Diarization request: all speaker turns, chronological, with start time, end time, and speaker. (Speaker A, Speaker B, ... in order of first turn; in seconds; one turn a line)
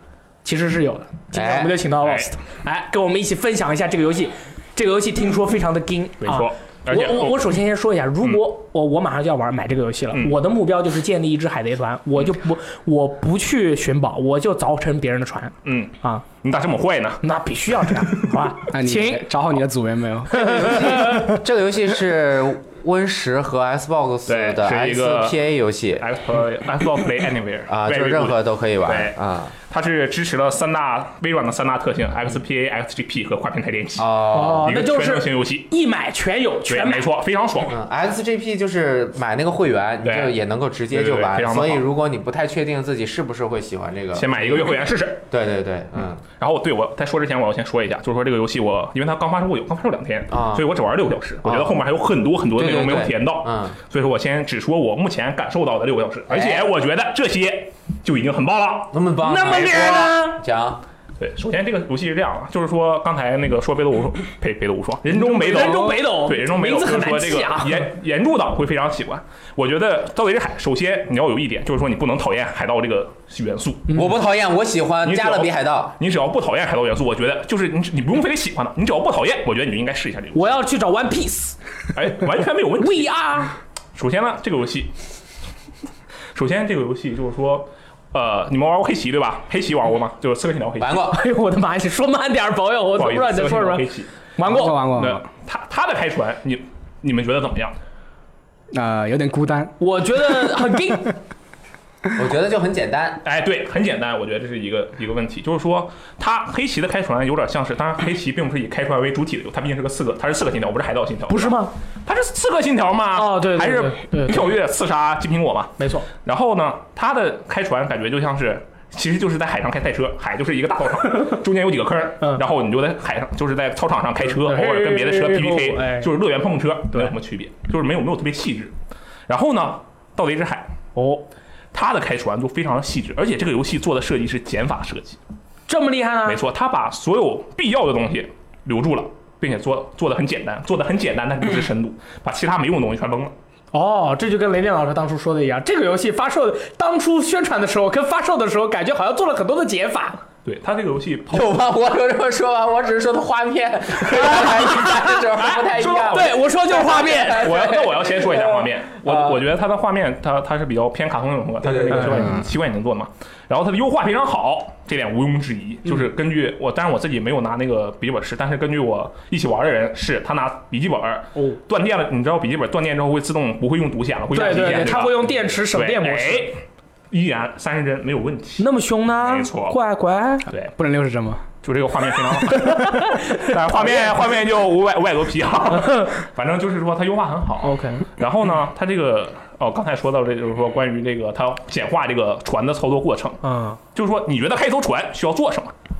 Speaker A: 0.4-16.2
Speaker B: 1.3-1.8
Speaker C: 2.0-2.3
Speaker C: 6.2-7.5
Speaker C: 15.6-17.2
Speaker A: 17.2-19.3
Speaker D: 18.7-21.1
Speaker A: 20.3-21.3
Speaker B: 20.3-26.1
Speaker C: 24.3-25.4
Speaker C: 26.0-29.1
Speaker B: 27.7-29.5
Speaker C: 29.6-35.7
Speaker B: 34.0-34.7
Speaker A: 34.3-37.1
Speaker C: 36.7-37.8
Speaker B: 37.7-44.7
Speaker C: 40.0-40.4
Speaker C: 40.9-41.8
Speaker C: 44.1-45.2
Speaker B: 45.3-46.2
Speaker C: 46.3-58.9
Speaker B: 50.3-50.7
Speaker B: 51.4-51.8
Speaker B: 52.5-53.8
Speaker B: 56.3-56.7
Speaker B: 58.9-60.8
Speaker A: 59.2-60.4
Speaker C: 61.2-74.0
Speaker A: 65.1-67.9
Speaker D: 65.5-65.9
Speaker B: 73.9-75.9
Speaker C: 75.0-80.5
Speaker A: 80.3-81.5
Speaker C: 81.9-83.1
Speaker A: 82.8-83.5
Speaker C: 83.9-84.9
Speaker C: 86.3-91.1
Speaker B: 90.8-91.2
Speaker A: 91.0-94.8
Speaker C: 92.9-97.8
Speaker D: 94.5-95.3
Speaker D: 98.7-99.7
Speaker A: 99.8-101.2
Speaker B: 102.1-103.2
Speaker C: 103.2-128.7
Speaker A: 111.3-111.7
Speaker A: 113.1-114.5
Speaker A: 115.8-116.1
Speaker A: 124.3-126.1
Speaker C: 129.3-130.7
Speaker A: 130.9-131.2
Speaker C: 131.7-135.2
Speaker A: 135.7-136.4
Speaker C: 136.2-143.3
Speaker A: 143.7-150.2
Speaker C: 150.4-151.6
Speaker B: 151.3-159.4
Speaker A: 154.0-157.6
Speaker C: 155.7-156.3
Speaker C: 157.3-178.7
Speaker B: 161.6-162.4
Speaker D: 162.1-162.4
Speaker A: 174.3-176.5
Speaker A: 178.6-180.5
Speaker C: 179.2-179.8
Speaker C: 180.5-180.7
Speaker D: 180.8-181.4
Speaker C: 181.6-195.7
Speaker A: 182.5-184.1
Speaker A: 185.8-186.1
Speaker A: 187.6-188.0
Speaker A: 193.4-193.8